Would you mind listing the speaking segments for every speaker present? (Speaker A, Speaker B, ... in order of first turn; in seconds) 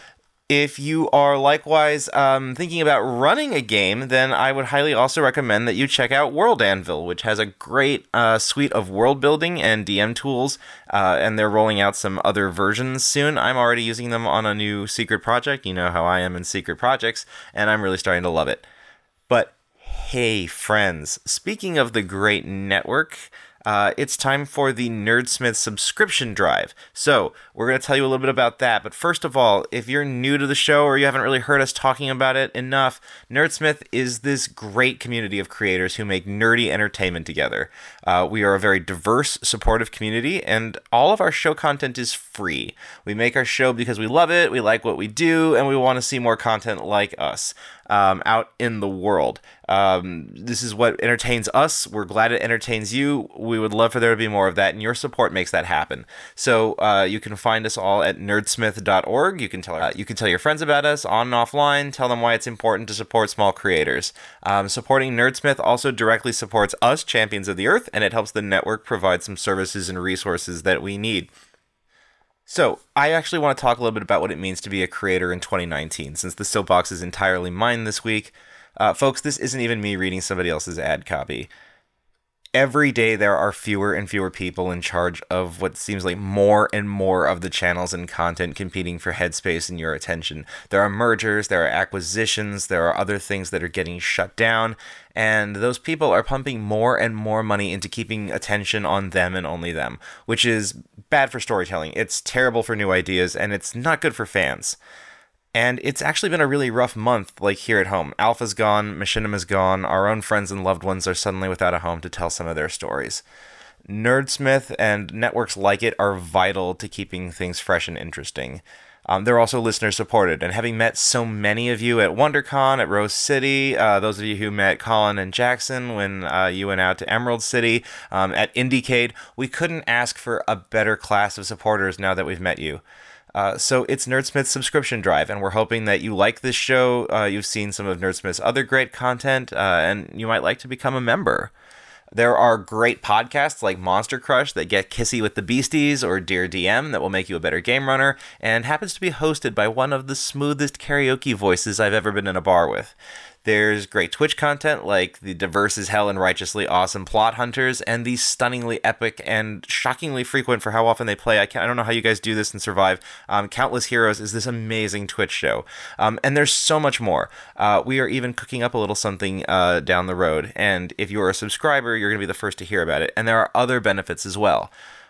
Speaker A: 0.5-18.6, 19.3-71.3, 72.5-81.5, 82.5-104.8, 105.5-113.2, 113.9-132.8, 133.3-141.5, 142.1-174.7